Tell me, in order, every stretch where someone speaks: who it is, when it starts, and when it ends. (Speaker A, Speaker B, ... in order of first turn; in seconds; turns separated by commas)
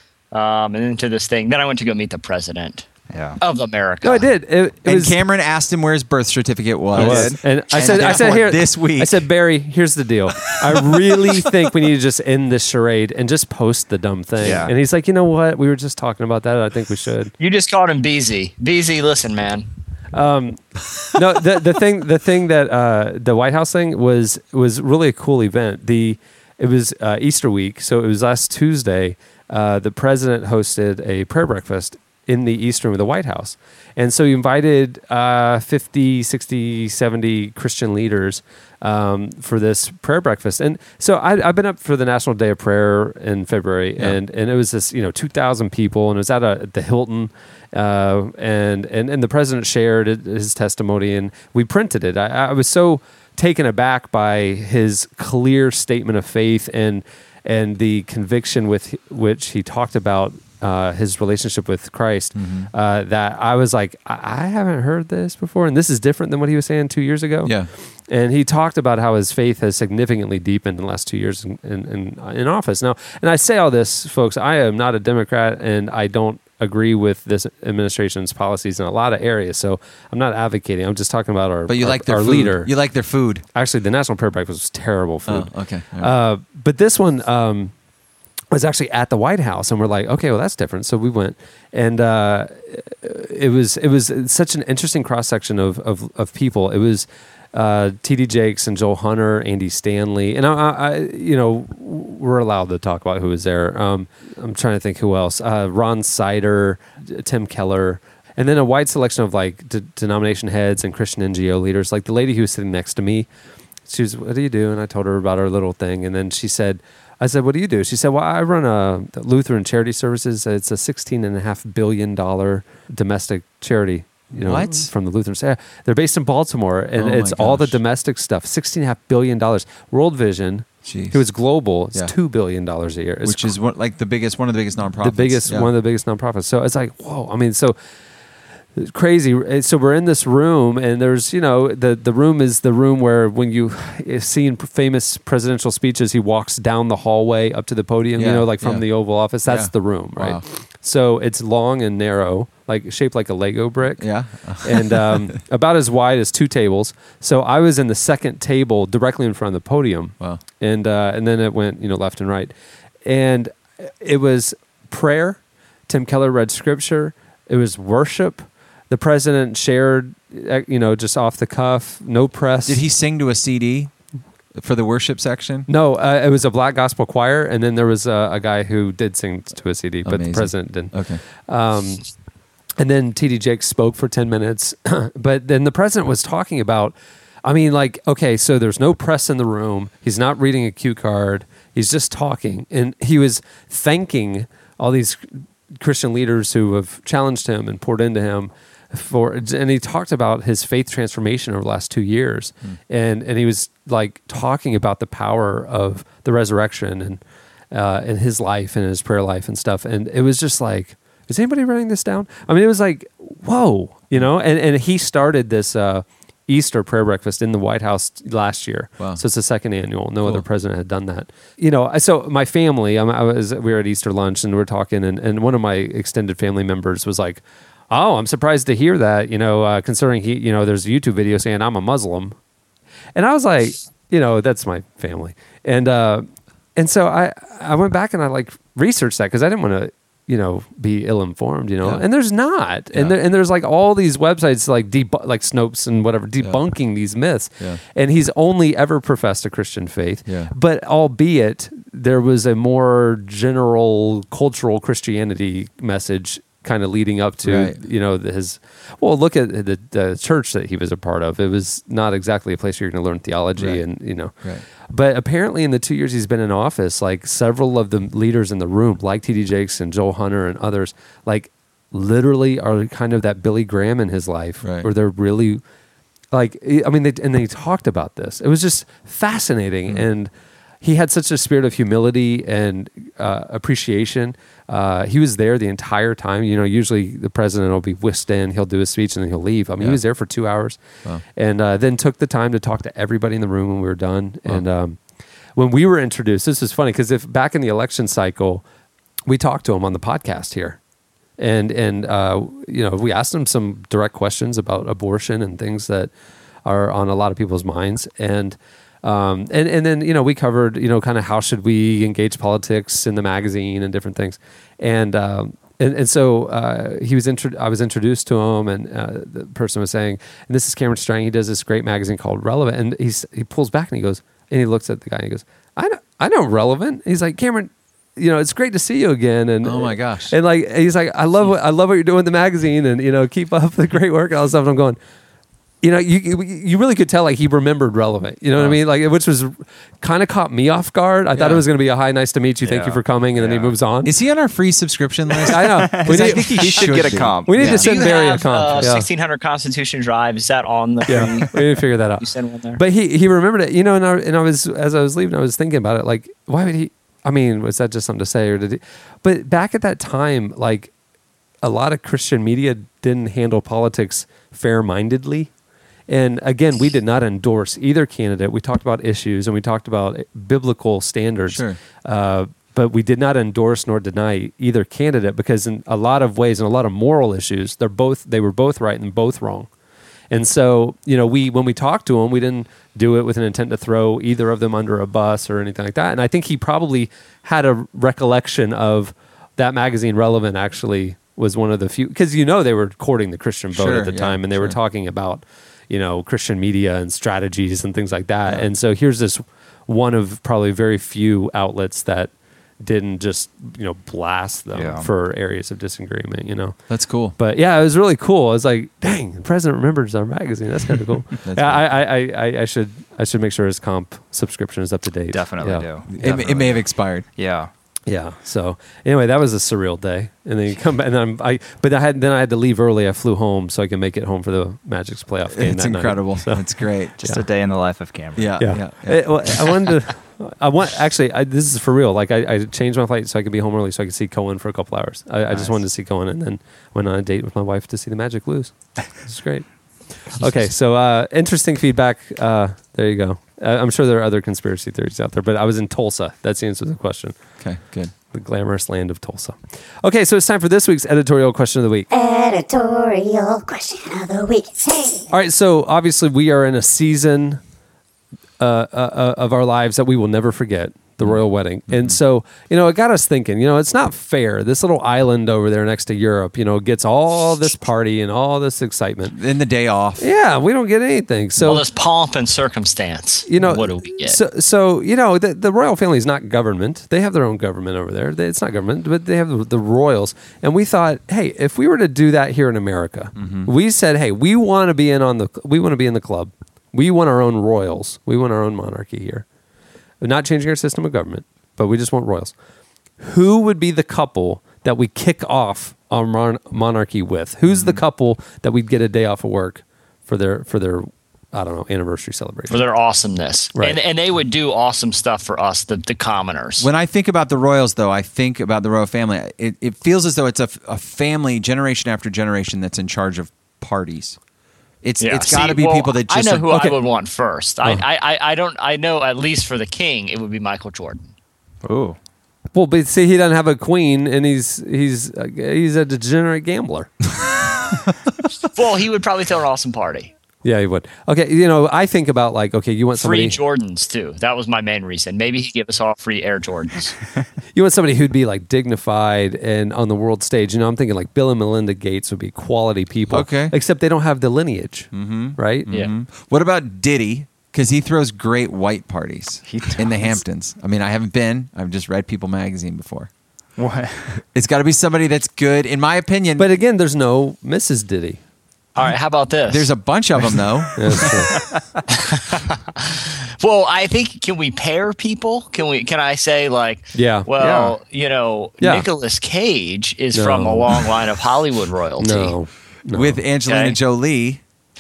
Speaker A: 0.3-2.9, Speaker B: 3.1-3.4, Speaker A: 3.4-4.3, Speaker C: 4.0-5.2, Speaker D: 4.8-9.3, Speaker B: 6.9-8.1, Speaker C: 6.9-17.3, Speaker B: 14.4-14.7, Speaker A: 17.4-19.7, Speaker C: 20.1-20.6, Speaker C: 21.1-67.5, Speaker D: 62.3-62.7, Speaker D: 67.4-67.7, Speaker C: 68.1-82.7, Speaker D: 81.7-83.4, Speaker C: 83.5-87.7, Speaker D: 85.3-86.1, Speaker C: 88.5-113.3, Speaker C: 113.9-133.5, Speaker D: 124.4-124.9, Speaker D: 127.0-127.8, Speaker D: 130.8-131.2, Speaker D: 133.2-135.7, Speaker C: 135.0-137.8, Speaker C: 138.8-154.1, Speaker D: 148.2-148.9, Speaker D: 149.4-150.4, Speaker D: 154.0-155.4, Speaker C: 154.6-162.5, Speaker C: 163.0-172.8, Speaker D: 172.7-173.9, Speaker D: 174.5-175.7, Speaker C: 175.7-180.9, Speaker D: 180.0-181.2, Speaker C: 181.5-182.0, Speaker C: 182.8-207.2, Speaker C: 207.7-232.3, Speaker C: 233.2-264.3, Speaker D: 250.3-250.5, Speaker D: 257.4-257.8, Speaker D: 263.6-263.8, Speaker C: 264.9-275.6, Speaker D: 274.6-274.9, Speaker C: 276.3-280.3, Speaker C: 280.8-290.8, Speaker C: 291.3-295.0, Speaker C: 295.6-298.6, Speaker C: 299.3-300.8, Speaker C: 301.4-306.1, Speaker C: 306.6-335.0, Speaker D: 329.6-330.4, Speaker C: 335.8-344.1, Speaker D: 341.3-341.6, Speaker B: 342.6-343.7, Speaker D: 344.0-347.9, Speaker B: 345.3-347.9, Speaker C: 345.5-349.1, Speaker A: 347.8-351.6, Speaker C: 351.1-352.2, Speaker A: 352.2-352.8, Speaker C: 352.8-360.9, Speaker C: 361.6-365.5, Speaker C: 366.1-379.7, Speaker D: 371.5-371.8, Speaker C: 380.3-406.8, Speaker D: 393.7-394.8, Speaker B: 404.7-405.1, Speaker D: 406.9-407.4, Speaker C: 407.4-415.9, Speaker D: 411.4-411.9, Speaker B: 415.3-417.7, Speaker D: 416.1-417.2, Speaker C: 418.1-426.6, Speaker D: 425.5-427.4, Speaker B: 427.2-428.6, Speaker D: 428.4-429.7, Speaker C: 428.6-439.7, Speaker B: 435.5-435.8, Speaker C: 440.3-447.4, Speaker D: 447.6-448.1, Speaker C: 448.3-452.1, Speaker E: 452.1-455.3, Speaker C: 455.3-457.6, Speaker C: 458.6-469.4, Speaker D: 461.2-462.2, Speaker D: 469.3-470.3, Speaker C: 470.2-471.8, Speaker A: 471.6-474.4, Speaker C: 473.5-489.4, Speaker C: 490.2-492.5, Speaker C: 493.2-502.8, Speaker D: 497.7-498.0, Speaker A: 502.7-506.9, Speaker C: 503.7-504.0, Speaker D: 506.8-514.4, Speaker D: 515.0-517.0, Speaker A: 515.2-521.3, Speaker B: 521.8-522.2, Speaker C: 522.7-527.1, Speaker A: 528.6-530.3, Speaker C: 530.6-533.6, Speaker A: 533.2-537.2, Speaker C: 537.7-545.9, Speaker D: 543.3-543.7, Speaker D: 545.1-553.3, Speaker B: 549.7-550.4, Speaker B: 553.8-554.3, Speaker D: 554.5-556.7, Speaker C: 556.6-558.4, Speaker A: 559.0-559.9, Speaker D: 559.7-561.4, Speaker C: 561.0-561.5, Speaker A: 562.2-572.5, Speaker C: 567.1-567.5, Speaker B: 567.6-568.0, Speaker C: 568.8-569.1, Speaker C: 570.3-570.9, Speaker C: 572.2-573.4, Speaker D: 573.1-574.6, Speaker A: 573.7-574.0